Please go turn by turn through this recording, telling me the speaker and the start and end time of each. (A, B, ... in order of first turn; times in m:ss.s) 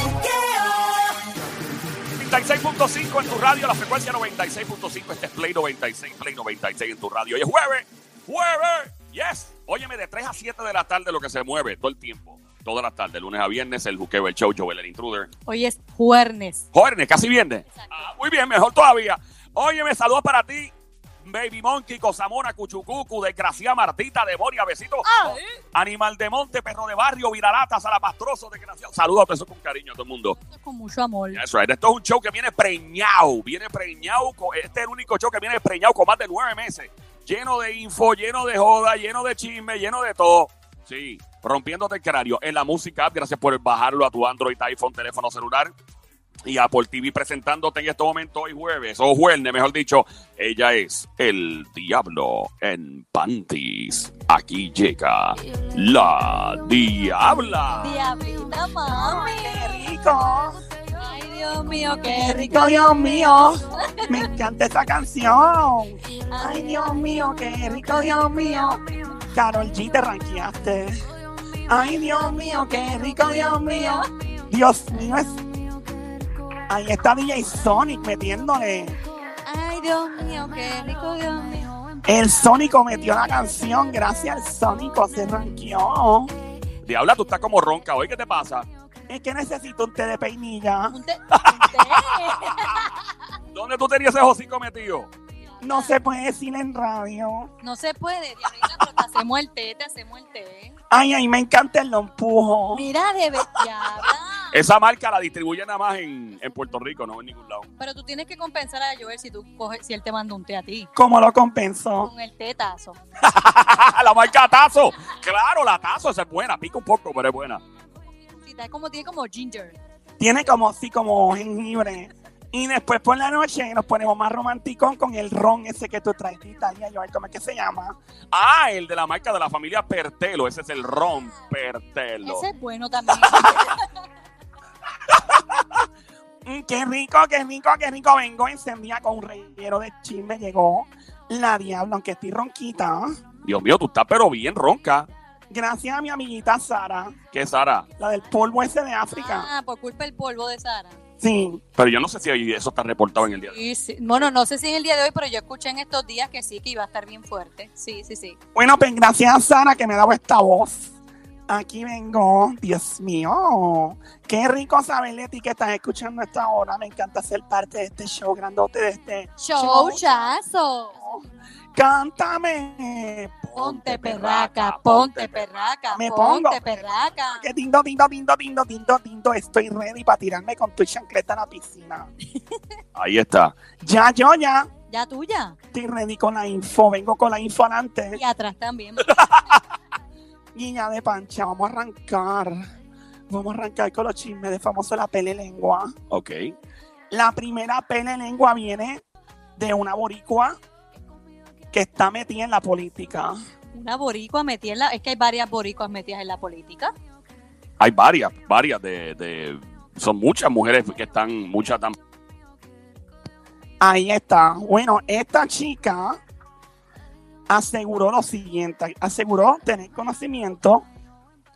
0:02.1-0:15.3 A
0:15.4-0:16.6 B
0:16.7-0:20.7 A
0:17.7-0:18.1 B
0:21.2-0:30.4 A
0:25.0-0:25.6 B
0:30.4-0:31.4 B
0:31.3-0:45.7 A
0:46.4-0:58.0 A
0:57.8-0:59.9 B
0:58.9-1:00.6 C
1:00.9-1:04.3 B
1:02.0-1:08.8 C
1:06.3-1:07.0 B
1:09.3-1:11.0 C
1:11.7-1:15.4 C
1:13.4-1:14.0 B
1:16.7-1:19.0 C
1:19.4-1:21.7 B
1:22.0-1:26.3 C
1:26.8-1:28.7 A
1:29.1-1:31.0 C
1:30.9-1:33.0 B
1:31.3-1:32.8 A
1:33.5-1:35.1 A
1:35.4-1:35.9 B
1:35.6-1:37.5 C
1:37.6-1:40.8 B
1:40.9-1:42.9 C
1:42.7-1:44.6 B
1:44.5-1:47.7 A
1:47.8-1:50.9 B
1:51.0-1:52.1 C
1:52.0-1:53.0 B
1:53.2-1:57.6 A
1:58.1-1:59.8 B
2:00.2-2:08.0 C
2:08.3-2:12.4 A
2:12.2-2:13.9 B
2:15.3-2:15.6 C
2:16.4-2:23.2 C
2:23.4-2:25.1 A
2:25.5-2:27.2 C
2:27.3-2:27.9 A
2:28.0-2:29.5 C
2:29.1-2:31.0 B
2:31.2-2:31.6 C
2:31.8-2:33.5 A
2:33.4-2:38.4 B
2:38.5-2:40.9 C
2:41.5-2:50.3 C
2:49.4-2:50.9 B
2:50.9-2:51.2 C
2:51.7-2:53.5 C
2:53.5-2:55.7 A
2:53.5-2:57.5 B
2:55.9-2:56.7 C
2:57.3-3:02.1 C
3:02.9-3:03.6 A
3:03.8-3:04.7 C
3:04.9-3:05.6 B
3:05.7-3:08.2 C
3:08.1-3:09.1 B
3:09.1-3:09.6 A
3:10.5-3:12.6 C
3:13.3-3:15.9 C
3:16.1-3:16.5 A
3:17.1-3:19.0 C
3:19.6-3:20.6 C
3:21.7-3:23.3 C
3:23.7-3:26.9 B
3:27.8-3:32.0 A
3:33.8-3:36.2 C
3:37.5-3:40.8 C